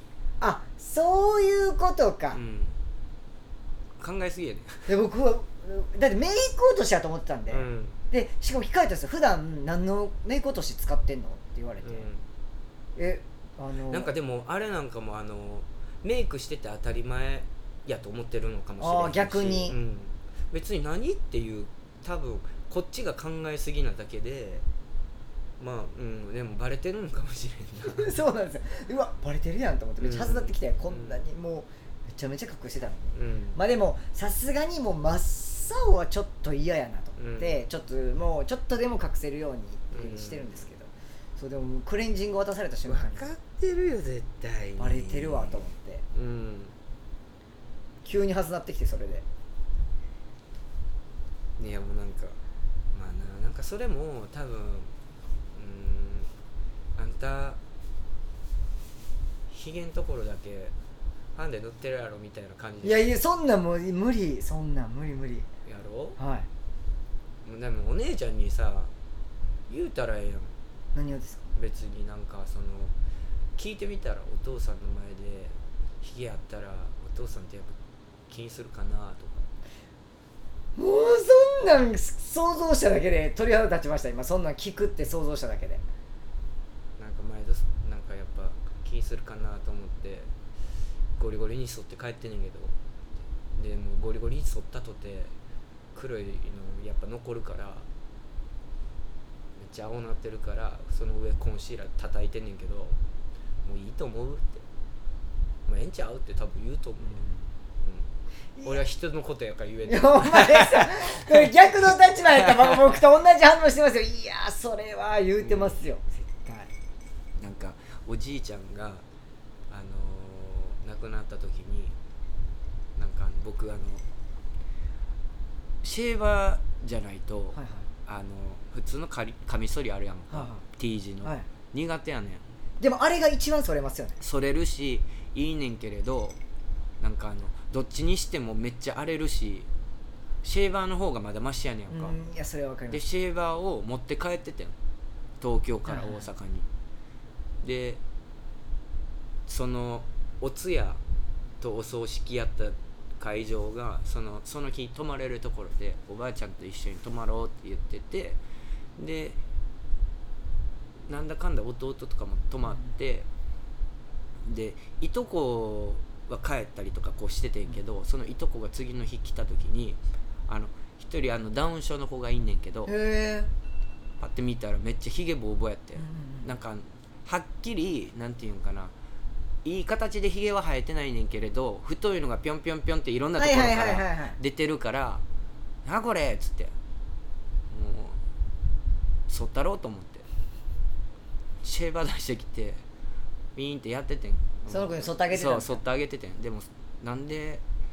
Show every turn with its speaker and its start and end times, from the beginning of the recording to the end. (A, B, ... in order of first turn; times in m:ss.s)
0:00.4-0:02.4 A
0:02.3-0:02.8 B
0:04.0-0:05.0 B
0:04.9-0:12.1 A
0:07.5-0:08.0 B
0:11.8-0:12.2 B
0:13.0-0:14.1 A
0:13.8-0:24.6 B
0:18.8-0:19.8 A
0:25.6-0:28.1 B
0:27.9-0:43.3 A
0:30.0-0:31.2 B
0:33.1-0:33.6 B
0:37.2-0:37.6 B
0:39.9-0:40.7 B
0:42.9-0:46.8 B
0:44.8-0:46.0 A
0:48.0-0:49.2 A
0:51.6-0:52.4 B
0:52.9-0:54.9 B
0:55.5-0:56.3 B
0:57.0-0:57.6 B
0:59.5-1:00.7 B
1:01.4-1:03.1 B
1:02.8-1:05.5 A
1:05.6-1:06.2 B
1:06.2-1:06.5 A
1:07.4-1:08.9 B
1:09.7-1:10.5 B
1:11.0-1:11.4 A
1:11.6-1:12.9 B
1:13.6-1:17.8 B
1:18.3-1:19.5 B
1:20.8-1:25.8 A
1:27.0-1:30.3 B
1:31.2-1:32.8 B
1:33.5-1:35.3 B
1:35.9-1:37.9 B
1:39.6-1:43.0 B
1:43.6-1:44.7 B
1:45.7-1:47.2 B
1:47.0-1:47.5 A
1:47.8-1:48.1 B
1:48.6-1:48.8 A
1:48.6-1:51.3 B
1:49.9-1:56.7 A
1:52.6-1:52.9 B
1:55.4-1:55.8 B
1:57.4-1:59.0 B
1:59.7-2:02.0 B
2:03.0-2:04.0 B
2:05.8-2:12.4 B
2:07.5-2:07.9 A
2:10.3-2:10.6 A
2:12.8-2:14.2 A
2:14.2-2:16.4 B
2:17.0-2:19.7 B
2:20.4-2:22.2 B
2:21.9-2:23.0 A
2:22.9-2:24.8 B
2:25.4-2:26.7 B
2:25.9-2:26.3 A
2:27.6-2:28.0 B
2:29.5-2:31.0 B
2:31.6-2:38.4 B
2:39.0-2:39.4 B
2:41.1-2:43.3 B
2:44.4-2:52.9 B
2:52.9-2:53.5 A
2:54.2-2:58.9 B
2:56.0-2:56.5 A
2:59.6-3:05.2 B
3:03.4-3:04.4 A
3:05.8-3:06.7 B
3:07.7-3:08.2 B
3:09.3-3:10.3 B
3:11.6-3:12.8 B
3:13.6-3:17.6 B
3:14.7-3:15.8 A